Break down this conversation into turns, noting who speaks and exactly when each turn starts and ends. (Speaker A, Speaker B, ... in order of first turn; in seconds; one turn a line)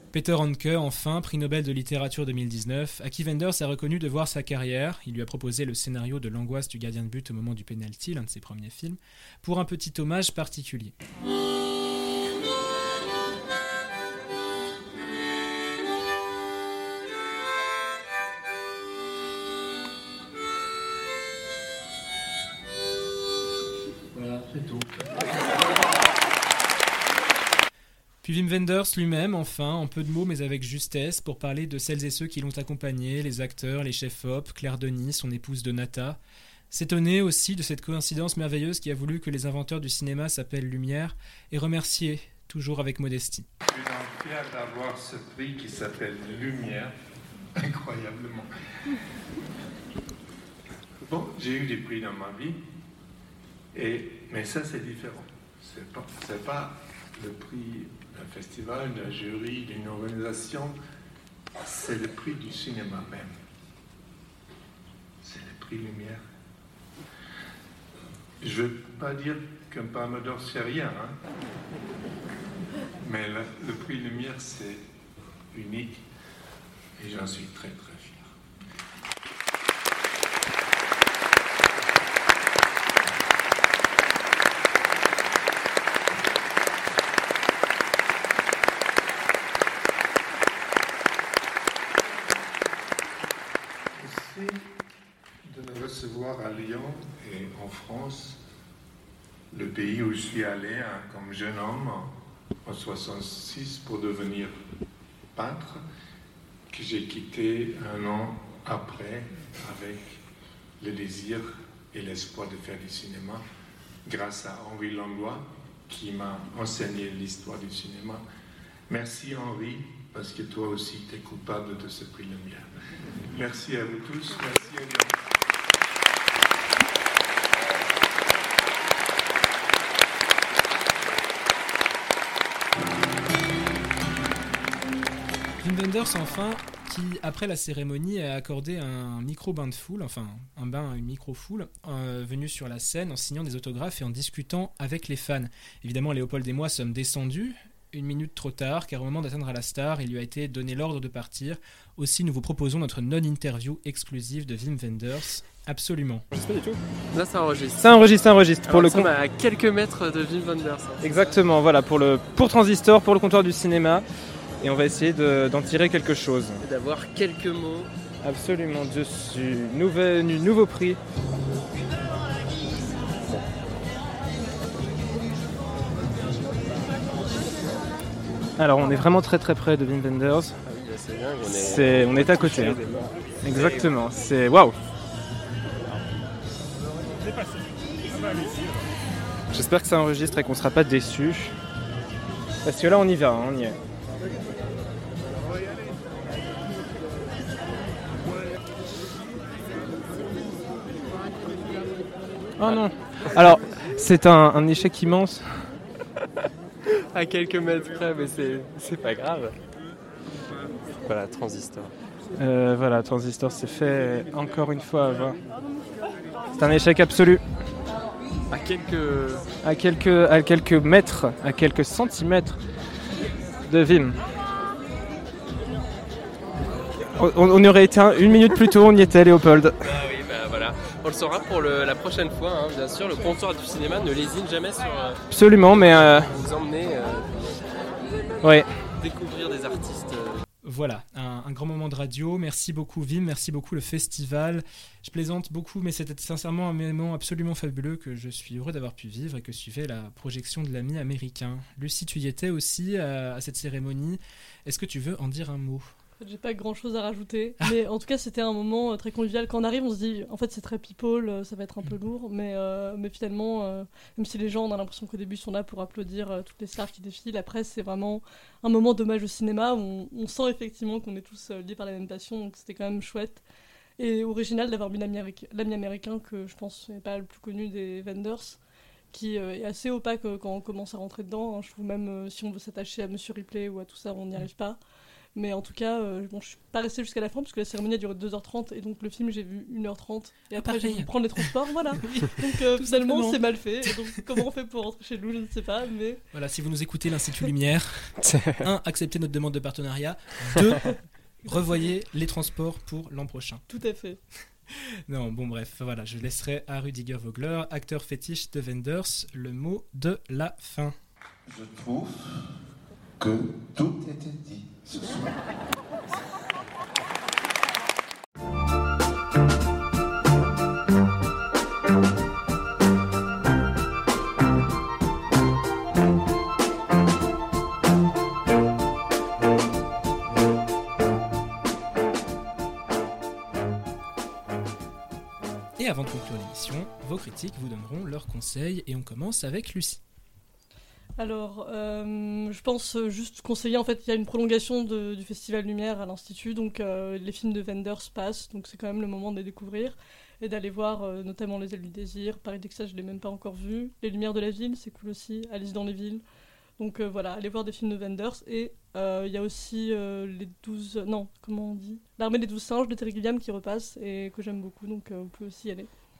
Speaker A: 0.1-10.9
Speaker A: 28.2-36.2
Speaker A: 36.7-43.5
Speaker B: 43.7-46.9
Speaker B: 47.6-48.5
Speaker B: 51.1-52.6
Speaker B: 53.7-60.7
Speaker B: 61.6-63.3
Speaker B: 65.2-66.2
Speaker B: 68.4-71.2
Speaker B: 73.0-74.8
Speaker B: 75.5-76.0
Speaker B: 77.0-78.2
Speaker B: 94.0-94.6
Speaker B: 95.5-98.4
Speaker B: 99.5-102.1
Speaker B: 102.6-104.5
Speaker B: 105.3-105.8
Speaker B: 106.7-110.2
Speaker B: 110.8-113.4
Speaker B: 114.0-118.2
Speaker B: 118.9-122.7
Speaker B: 123.3-125.1
Speaker A: 135.6-156.2
Speaker C: 156.4-156.7
Speaker D: 157.1-158.1
Speaker C: 157.8-158.7
Speaker D: 158.6-161.5
Speaker C: 161.1-164.0
Speaker C: 164.6-166.6
Speaker D: 166.6-167.9
Speaker C: 168.3-171.0
Speaker C: 178.7-180.5
Speaker D: 180.6-183.9
Speaker C: 183.9-184.7
Speaker C: 189.5-191.5
Speaker C: 192.6-193.7
Speaker D: 202.6-203.3
Speaker C: 204.1-205.4
Speaker D: 207.1-209.5
Speaker D: 211.0-211.9
Speaker C: 212.4-215.3
Speaker C: 216.7-217.4
Speaker D: 218.5-219.4
Speaker C: 219.7-222.5
Speaker C: 223.8-224.1
Speaker C: 227.2-229.7
Speaker D: 229.8-237.3
Speaker C: 235.3-236.2
Speaker D: 239.0-240.4
Speaker A: 240.6-255.9
Speaker E: 256.2-273.4
Speaker E: 274.0-278.6
Speaker E: 279.1-284.8
Speaker E: 285.3-296.2
Speaker A: 290.6-291.4
Speaker A: 292.0-293.4
Speaker A: 296.3-303.6
Speaker E: 303.7-304.2
Speaker A: 305.1-310.9
Speaker F: 311.5-312.4
Speaker F: 313.2-315.4
Speaker A: 335.8-340.0
Speaker E: 341.2-356.2
Speaker E: 356.8-365.9